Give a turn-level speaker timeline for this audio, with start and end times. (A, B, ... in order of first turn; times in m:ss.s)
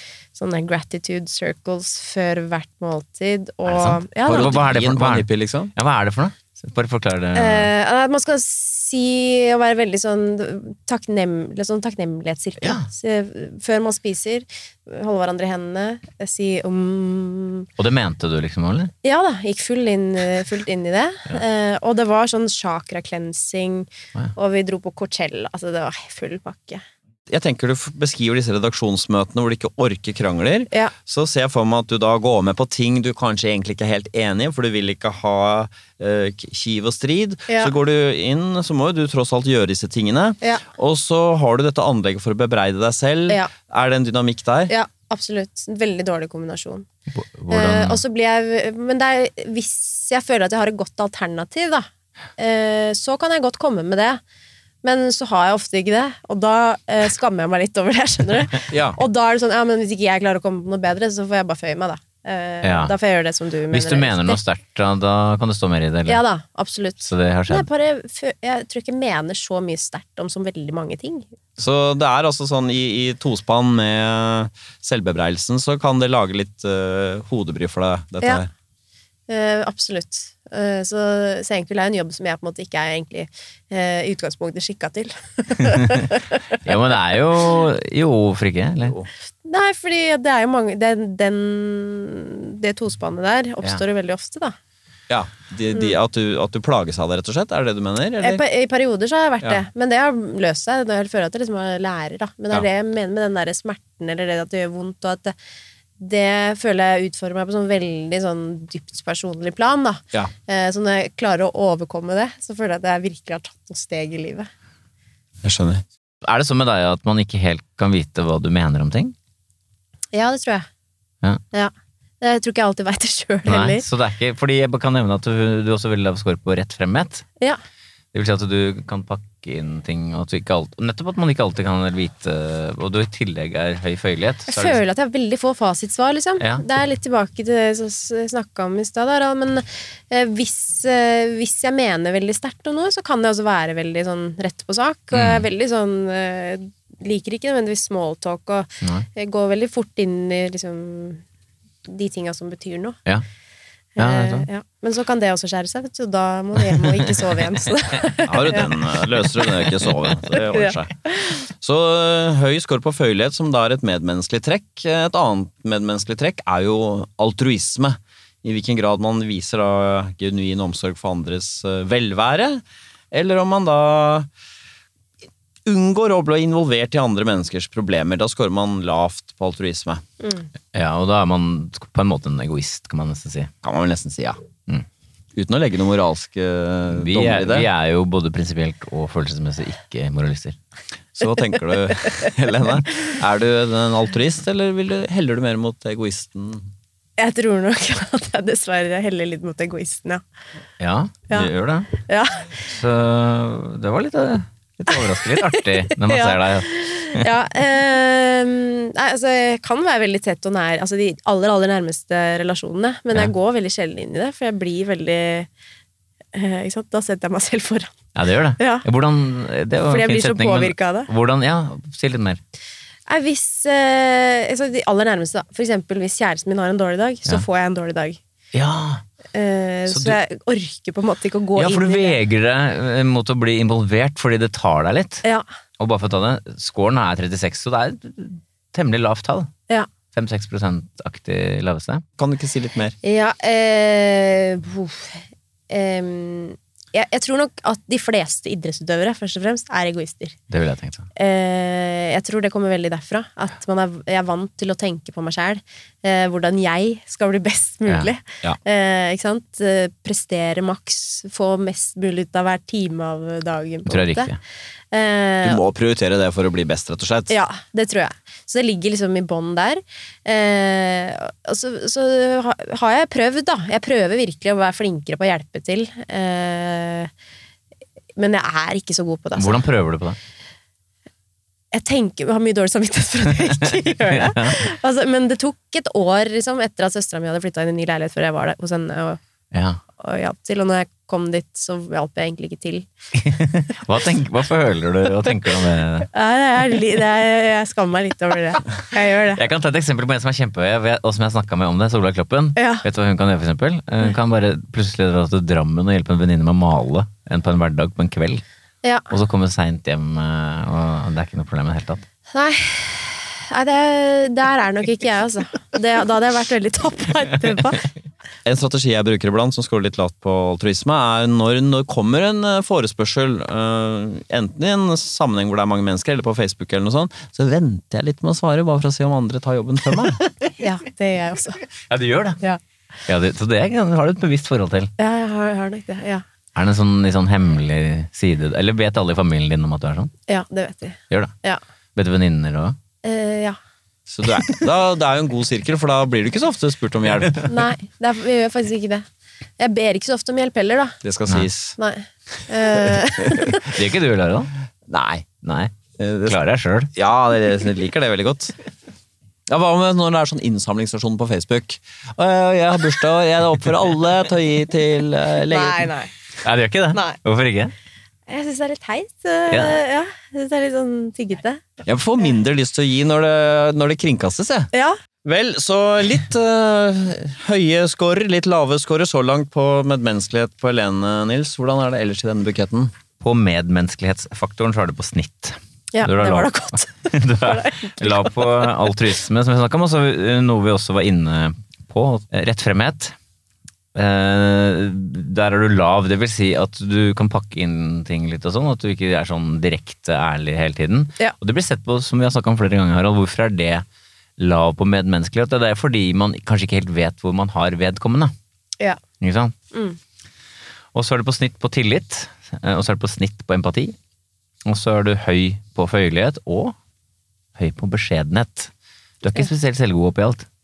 0:00.3-0:04.6 A
0:03.6-0:07.7 B
0:04.2-0:05.7 C
0:07.3-0:17.7 A
0:12.6-0:12.9 B
0:17.8-0:18.9 B
0:19.0-0:26.8 A
0:27.3-0:44.7 C
0:44.7-0:46.9 A
0:47.1-0:48.0 B
0:47.5-0:54.2 A
0:54.8-1:04.4 A
0:58.7-0:59.0 C
1:02.6-1:02.9 B
1:03.7-1:06.2 B
1:06.1-1:11.3 A
1:07.0-1:07.7 B
1:11.6-1:18.5 C
1:19.3-1:26.4 A
1:25.6-1:29.0 B
1:29.4-1:34.5 A
1:35.1-1:38.4 C
1:38.2-1:45.3 A
1:46.0-1:54.5 A
1:55.4-1:55.8 C
1:56.2-1:59.1 B
2:00.1-2:00.7 A
2:01.5-2:03.8 A
2:03.4-2:07.2 B
2:08.1-2:14.8 B
2:14.5-2:31.2 A
2:16.4-2:16.6 B
2:25.1-2:25.5 B
2:31.8-2:33.0 A
2:34.0-2:38.7 A
2:34.0-2:34.5 B
2:36.8-2:37.3 B
2:38.2-2:54.3 C
2:40.4-2:41.4 A
2:55.6-3:00.0 C
3:00.2-3:00.5 A
3:00.7-3:03.5 B
3:03.6-3:04.4 C
3:05.4-3:07.7 C
3:06.9-3:10.6 B
3:11.2-3:16.7 C
3:17.2-3:20.2 A
3:20.8-3:21.9 B
3:21.3-3:22.6 A
3:22.6-3:27.3 B
3:24.9-3:35.5 A
3:36.3-3:37.9 A
3:38.1-3:42.4 B
3:38.6-3:38.8 A
3:39.9-3:41.1 A
3:43.1-3:48.2 A
3:48.5-3:49.0 B
3:49.3-3:52.2 A
3:49.9-3:50.2 B
3:51.6-3:55.2 B
3:55.8-3:59.5 B
4:00.1-4:02.0 B
4:02.2-4:02.9 C
4:03.0-4:10.4 A
4:10.5-4:11.1 B
4:11.1-4:24.3 A
4:23.9-4:24.4 B
4:24.9-4:25.6 A
4:25.4-4:27.3 C
4:27.3-4:37.1 A
4:38.2-4:39.6 A
4:39.4-4:40.2 B
4:41.7-4:49.2 A
4:44.0-4:44.6 B
4:49.5-4:49.8 B
4:50.0-4:52.9 A
4:53.1-4:56.1 B
4:56.1-4:59.4 A
4:59.3-5:08.4 B
5:02.6-5:02.8 A
5:08.8-5:09.1 A
5:09.1-5:12.0 B
5:12.3-5:17.9 A
5:18.4-5:30.2 C
5:30.5-5:31.6 A
5:31.8-5:32.4 B
5:33.1-5:34.9 B
5:35.0-5:36.2 A
5:36.5-5:40.1 B
5:40.3-5:41.6 A
5:41.9-5:42.8 B
5:43.0-5:43.6 A
5:44.1-5:47.5 C
5:47.5-5:49.0 A
5:49.6-5:51.0 A
5:51.0-5:51.8 C
5:51.8-5:53.8 A
5:53.6-5:54.5 B
5:54.9-5:55.3 C
5:55.4-5:55.7 B
5:56.0-5:56.4 C
5:56.2-5:56.9 B
5:56.9-5:58.6 C
5:59.5-6:05.9 C
6:05.5-6:06.1 A
6:06.4-6:07.7 B
6:06.9-6:07.2 A
6:08.3-6:11.6 A
6:09.5-6:09.8 B
6:11.8-6:14.7 C
6:15.2-6:22.9 C
6:23.2-6:33.1 B
6:25.9-6:28.7 A
6:33.9-6:43.8 B
6:44.4-6:48.3 B
6:49.2-6:49.5 B
6:49.7-6:50.0 A
6:50.9-6:54.0 B
6:54.6-6:56.8 B
6:57.6-7:00.5 B